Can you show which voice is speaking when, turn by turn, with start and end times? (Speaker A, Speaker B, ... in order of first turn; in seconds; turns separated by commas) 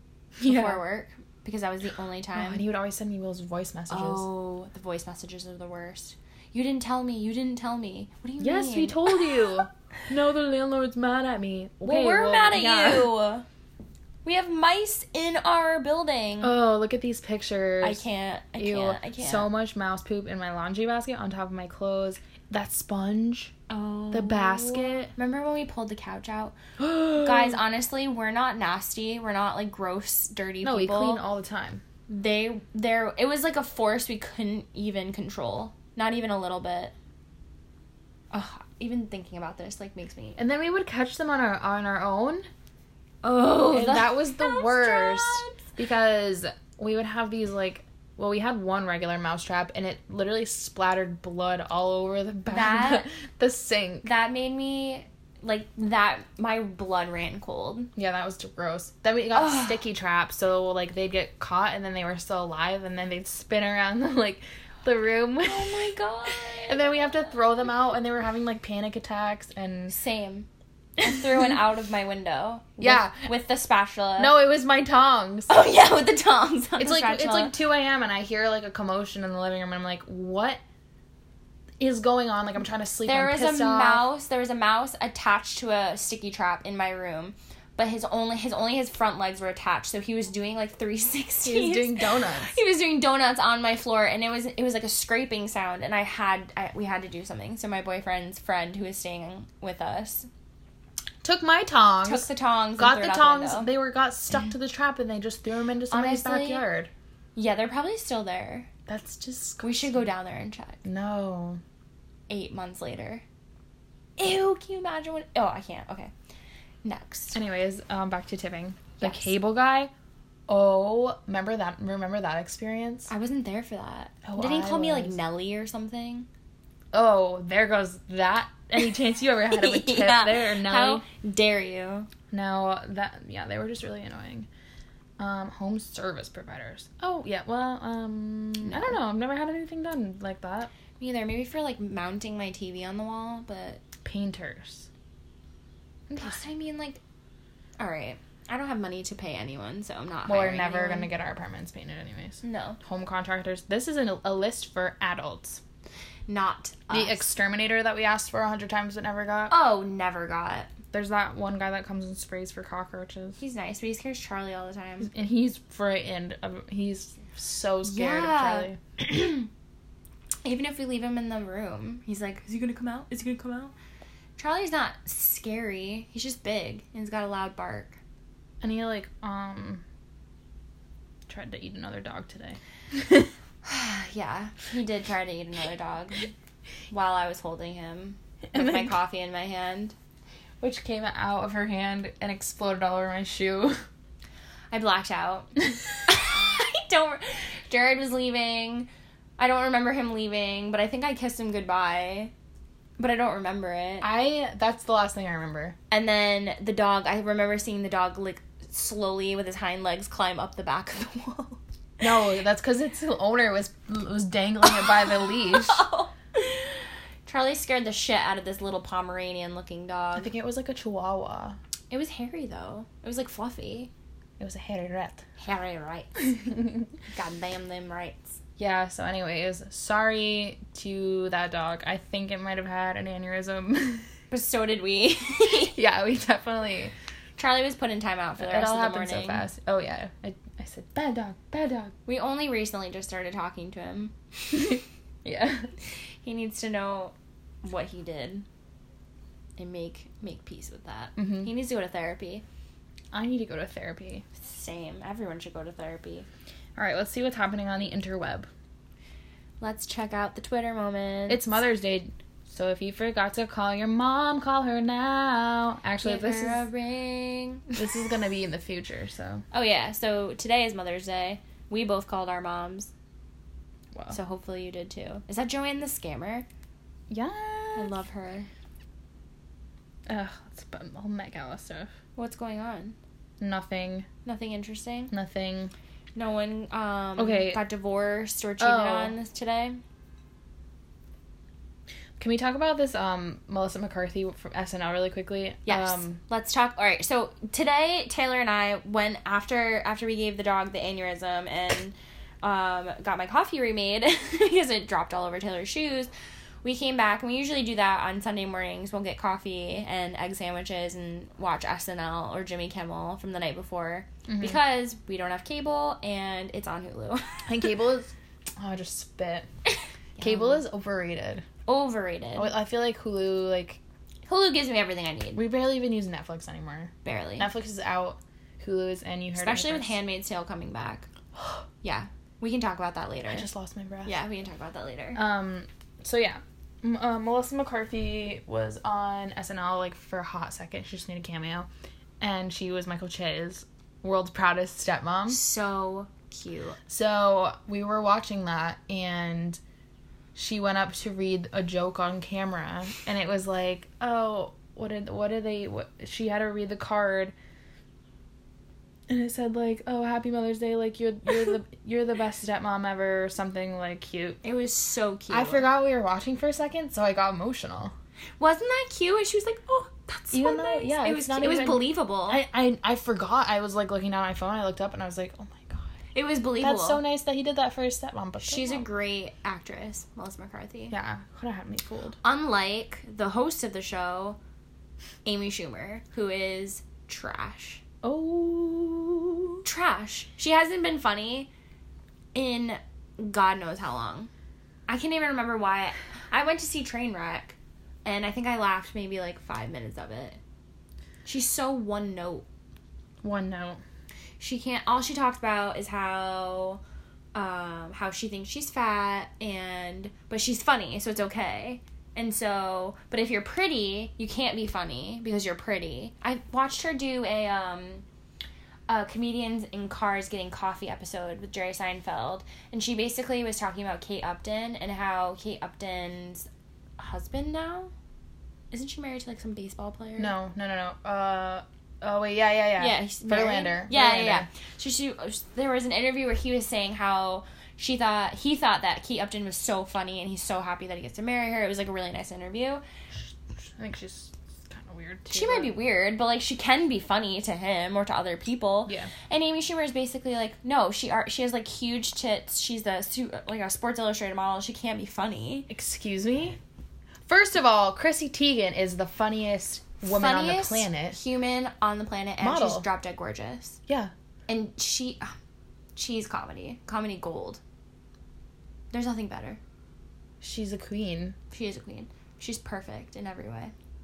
Speaker A: 0.4-0.8, Speaker B: 0.4-2.6, Speaker A: 2.4-4.3, Speaker B: 3.9-9.3, Speaker A: 8.4-13.1, Speaker B: 11.8-13.4, Speaker B: 14.2-16.5, Speaker A: 16.4-18.0, Speaker B: 17.8-19.5, Speaker A: 18.6-23.5, Speaker B: 23.7-31.2, Speaker A: 24.1-25.1, Speaker A: 26.8-27.6, Speaker A: 30.6-31.8, Speaker B: 32.1-36.9, Speaker B: 38.3-40.4, Speaker A: 40.4-42.5, Speaker B: 43.2-45.6, Speaker A: 43.7-54.1, Speaker B: 52.5-53.1, Speaker B: 54.0-57.9, Speaker A: 58.0-65.8, Speaker B: 59.4-59.7, Speaker B: 65.4-67.1, Speaker A: 66.7-70.0, Speaker B: 69.9-70.5, Speaker B: 71.0-74.4, Speaker A: 72.8-73.3, Speaker A: 74.2-75.5, Speaker B: 75.5-77.5, Speaker A: 76.8-80.6, Speaker A: 81.8-84.1, Speaker B: 83.0-100.3, Speaker A: 91.4-92.5, Speaker A: 101.2-106.9, Speaker B: 102.0-103.7, Speaker B: 105.9-106.6, Speaker B: 107.4-108.7, Speaker A: 108.9-110.1, Speaker B: 109.6-110.8, Speaker A: 110.8-111.6, Speaker B: 112.3-113.2, Speaker B: 114.2-116.1, Speaker B: 116.8-117.4, Speaker A: 117.3-119.9, Speaker B: 119.0-119.3, Speaker A: 120.5-123.1, Speaker B: 123.1-126.3, Speaker A: 124.2-125.2, Speaker A: 126.9-131.0, Speaker B: 129.5-132.1, Speaker A: 132.3-134.5, Speaker A: 135.2-140.7, Speaker B: 138.6-139.0, Speaker B: 141.0-143.8, Speaker A: 144.0-144.9, Speaker A: 146.1-146.5, Speaker B: 146.2-147.0, Speaker B: 147.8-151.1, Speaker A: 150.3-155.6, Speaker B: 152.4-152.8, Speaker B: 156.3-157.3, Speaker A: 156.9-159.5, Speaker B: 159.5-160.7, Speaker A: 160.9-163.4, Speaker B: 163.4-165.1, Speaker A: 165.0-168.8, Speaker B: 167.8-169.5, Speaker B: 170.4-173.7, Speaker B: 174.4-178.0, Speaker A: 178.6-179.8, Speaker A: 181.3-183.3, Speaker B: 183.7-186.3, Speaker B: 186.9-189.9, Speaker A: 188.5-188.9, Speaker A: 190.6-193.8, Speaker B: 194.7-202.3, Speaker B: 203.0-204.1, Speaker A: 204.0-205.8, Speaker B: 205.9-211.6, Speaker A: 212.0-215.8, Speaker B: 214.8-216.7, Speaker B: 217.3-220.3, Speaker A: 220.2-221.6, Speaker B: 221.9-223.9, Speaker A: 224.4-225.2, Speaker B: 225.4-226.4, Speaker B: 227.1-228.4, Speaker A: 228.6-234.1, Speaker B: 234.3-235.8, Speaker A: 235.7-236.9, Speaker B: 237.4-239.5, Speaker A: 238.4-241.9, Speaker B: 242.1-244.8, Speaker A: 244.5-245.7, Speaker B: 246.2-248.4, Speaker B: 249.6-252.4, Speaker A: 251.2-251.5, Speaker A: 253.1-254.2, Speaker B: 254.4-256.3, Speaker A: 256.8-258.5, Speaker B: 259.6-261.5, Speaker A: 261.3-266.6, Speaker B: 266.0-267.8, Speaker A: 267.8-269.4, Speaker B: 269.5-272.9, Speaker B: 274.1-276.5, Speaker A: 277.1-277.9, Speaker B: 277.8-278.5, Speaker A: 280.1-281.9, Speaker B: 282.2-283.0, Speaker A: 283.4-284.1, Speaker B: 284.2-285.1, Speaker A: 285.1-285.7, Speaker B: 286.1-289.8, Speaker A: 287.2-287.6, Speaker A: 288.6-289.1, Speaker A: 292.2-296.2, Speaker B: 295.7-306.1, Speaker B: 306.6-317.5, Speaker A: 314.3-314.6, Speaker A: 317.5-319.5, Speaker B: 320.2-320.6, Speaker A: 320.2-321.4, Speaker B: 321.7-322.5, Speaker A: 322.4-323.8, Speaker B: 324.3-325.4, Speaker A: 325.4-330.0, Speaker B: 327.0-327.5, Speaker B: 329.4-331.1, Speaker B: 331.8-333.5, Speaker A: 333.3-334.1, Speaker B: 334.1-335.2, Speaker A: 335.2-341.7, Speaker A: 342.2-345.4, Speaker B: 345.3-346.8, Speaker A: 346.9-349.6, Speaker A: 350.4-357.3, Speaker A: 359.1-364.4, Speaker B: 364.4-365.7, Speaker A: 365.3-367.9, Speaker B: 368.4-372.4, Speaker A: 370.3-375.9, Speaker B: 376.1-377.0, Speaker A: 376.6-378.9, Speaker B: 378.4-381.0, Speaker A: 380.9-382.2, Speaker B: 382.2-384.4, Speaker B: 385.2-387.8, Speaker A: 388.0-389.6, Speaker B: 389.6-391.5, Speaker B: 392.4-394.3, Speaker B: 394.9-400.4, Speaker B: 401.2-402.5, Speaker A: 403.2-403.8, Speaker B: 404.4-406.8, Speaker B: 407.4-418.0, Speaker B: 418.9-427.9, Speaker B: 428.7-430.3, Speaker A: 430.2-434.5, Speaker B: 432.8-442.8, Speaker A: 443.8-445.8, Speaker B: 445.3-455.7, Speaker A: 455.7-456.6, Speaker A: 457.3-461.2, Speaker B: 460.0-463.8, Speaker A: 462.4-462.9, Speaker A: 463.9-464.1, Speaker B: 464.5-465.3, Speaker B: 466.0-467.6, Speaker B: 468.9-469.6, Speaker A: 470.4-471.4, Speaker B: 471.5-473.7